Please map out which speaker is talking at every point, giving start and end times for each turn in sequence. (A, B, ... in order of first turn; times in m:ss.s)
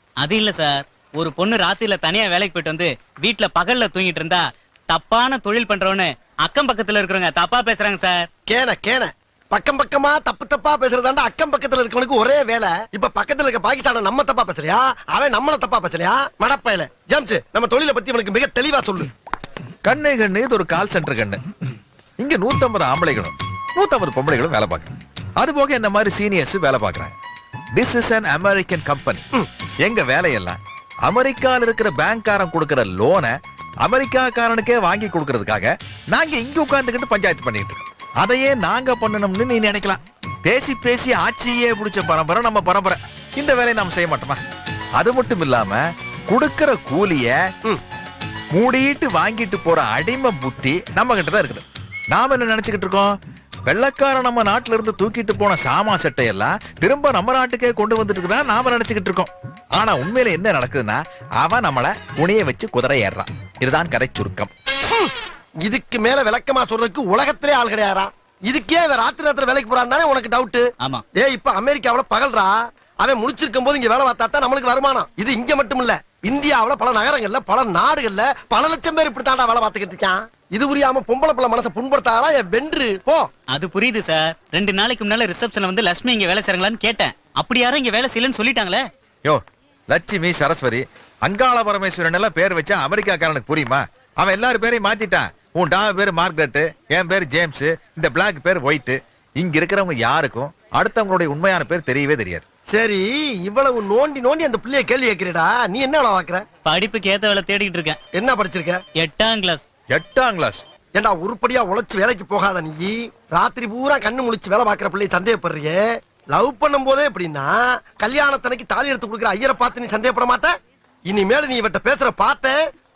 0:00.2-0:08.3 A
0:08.4-0:19.1 B
0:19.8-0:21.4 C
0:22.2-0:27.1 C
0:27.7-0:29.2 C
0:29.8-0:44.4 C
0:45.0-0:47.3 C
0:48.5-0:53.1 C
0:53.6-1:04.5 C
1:05.6-1:23.3 B
1:23.5-1:28.8 A
1:29.2-1:42.4 C
1:42.7-1:46.4 B
1:46.6-1:48.0 A
1:48.1-1:48.8 B
1:49.0-1:49.6 A
1:49.9-1:50.6 C
1:50.9-2:00.5 B
2:01.0-2:02.6 B